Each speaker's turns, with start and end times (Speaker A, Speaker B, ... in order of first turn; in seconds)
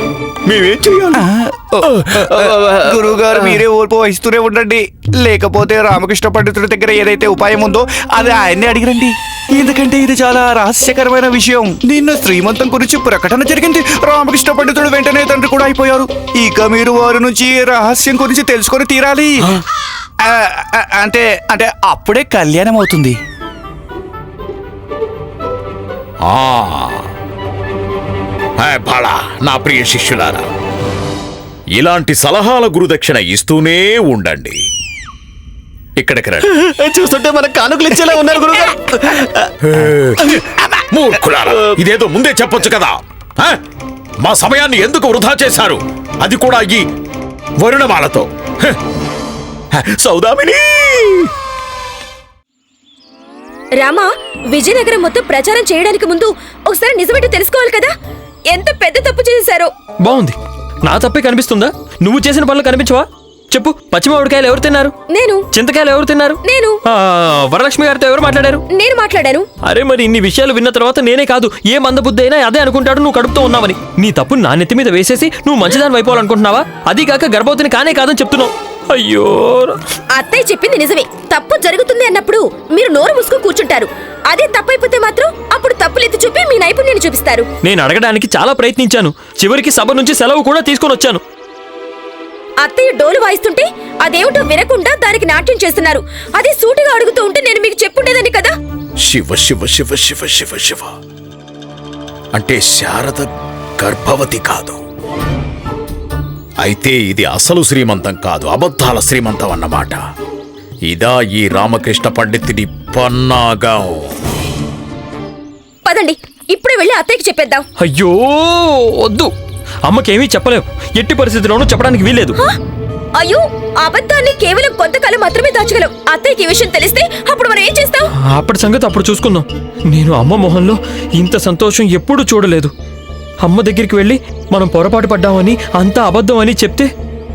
Speaker A: 0.5-1.2, 1.9-3.6, 26.2-27.1, 28.6-30.5, 31.8-34.6, 36.0-36.5, 39.6-43.6, 44.2-46.8, 47.6-48.8, 49.7-51.3, 99.0-100.9, 102.3-104.8, 106.6-110.0, 110.9-114.0
Speaker B: 1.2-19.5, 20.3-23.1
Speaker C: 36.5-39.4
Speaker D: 53.8-57.9, 58.5-59.7, 65.1-65.4, 66.5-66.8, 68.7-69.5, 80.2-87.5, 92.6-98.5, 115.8-117.6, 123.2-128.1
Speaker E: 60.0-64.9, 65.5-68.6, 69.6-79.8, 87.6-91.2, 117.8-119.3, 119.8-122.4, 128.2-132.7, 133.4-136.9